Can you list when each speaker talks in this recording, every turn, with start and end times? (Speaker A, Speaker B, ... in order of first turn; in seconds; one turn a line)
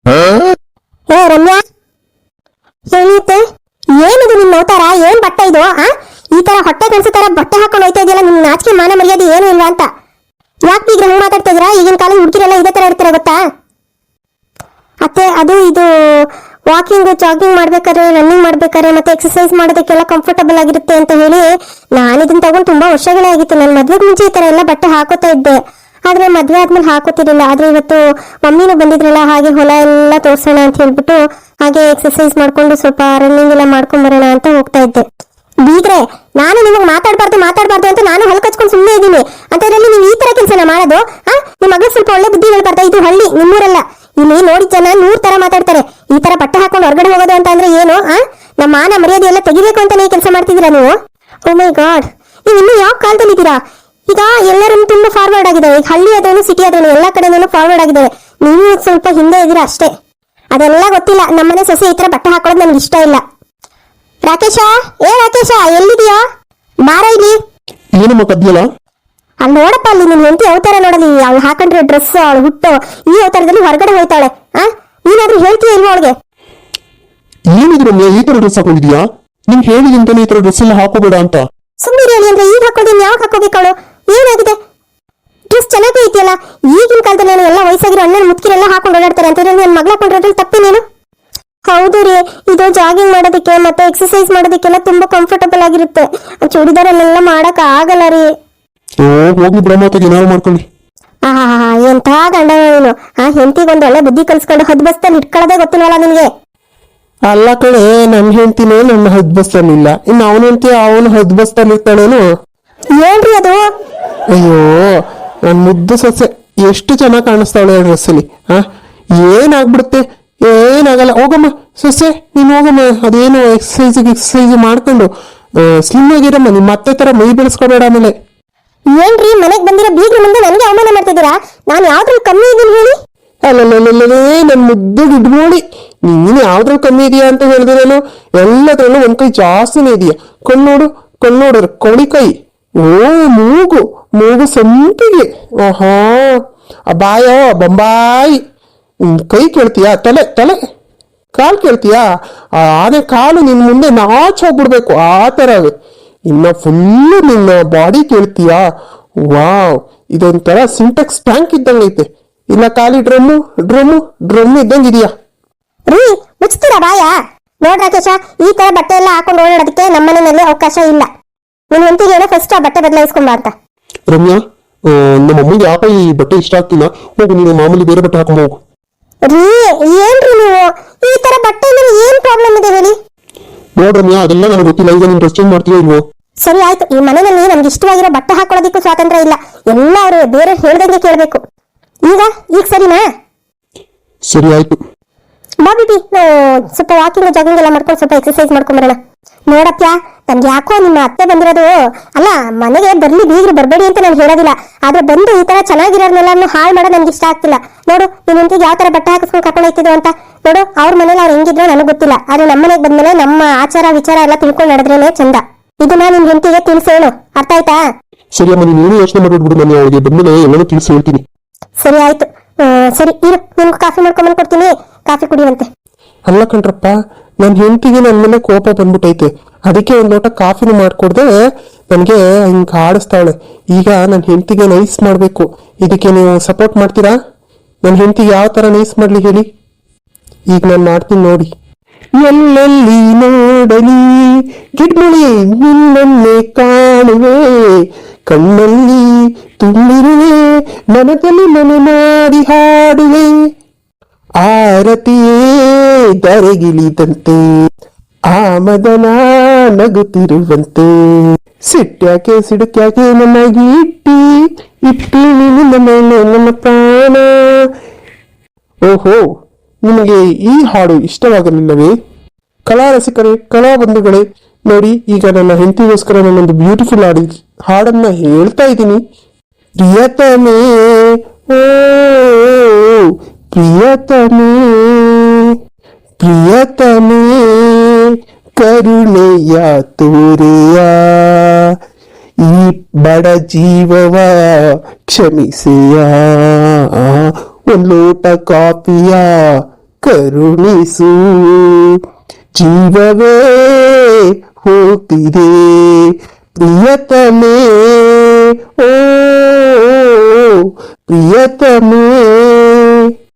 Speaker A: 1.1-1.6
Speaker A: 2.9-3.4
Speaker A: 4.0-9.9
Speaker A: 10.7-13.4
Speaker A: 15.1-15.9
Speaker A: 16.7-35.0
Speaker A: 35.7-50.9
Speaker A: 51.5-59.9
Speaker A: 60.5-63.2
Speaker A: 64.2-66.2
Speaker A: 66.9-67.4
Speaker B: 68.0-68.7
Speaker A: 69.4-76.2
Speaker B: 77.5-81.4
Speaker A: 81.8-84.6
Speaker A: 85.5-90.8
Speaker A: 91.7-98.3
Speaker B: 99.0-100.7
Speaker A: 101.3-106.3
Speaker B: 107.3-112.2
Speaker A: 113.0-113.6
Speaker B: 114.3-118.7
Speaker B: 119.2-125.1
Speaker B: 125.6-128.1
Speaker A: 128.9-133.0
Speaker B: 133.5-148.4
Speaker B: 149.0-150.6
Speaker B: 151.4-152.1
Speaker B: 152.6-155.7
Speaker B: 156.3-158.7
Speaker B: 159.3-165.1
Speaker A: 165.9-167.1
Speaker A: 167.6-171.1
Speaker A: 171.7-173.5
Speaker B: 174.1-174.4
Speaker B: 174.9-178.6
Speaker A: 179.3-183.0
Speaker B: 183.8-186.0
Speaker A: 186.4-191.4
Speaker A: 192.1-193.0
Speaker B: 194.3-194.8
Speaker A: 195.6-199.0
Speaker A: 199.5-217.8
Speaker B: 218.4-221.2
Speaker A: 221.8-225.7
Speaker B: 226.3-231.3
Speaker B: 231.9-237.2
Speaker B: 237.8-239.5
Speaker B: 240.5-241.5
Speaker B: 242.2-253.3
Speaker B: 254.4-257.4
Speaker B: 258.3-267.7
Speaker B: 268.9-269.2
Speaker B: 269.9-271.9
Speaker B: 272.7-279.0
Speaker B: 279.8-285.6
Speaker B: 286.2-291.8
Speaker B: 292.4-302.0
Speaker B: 302.6-313.1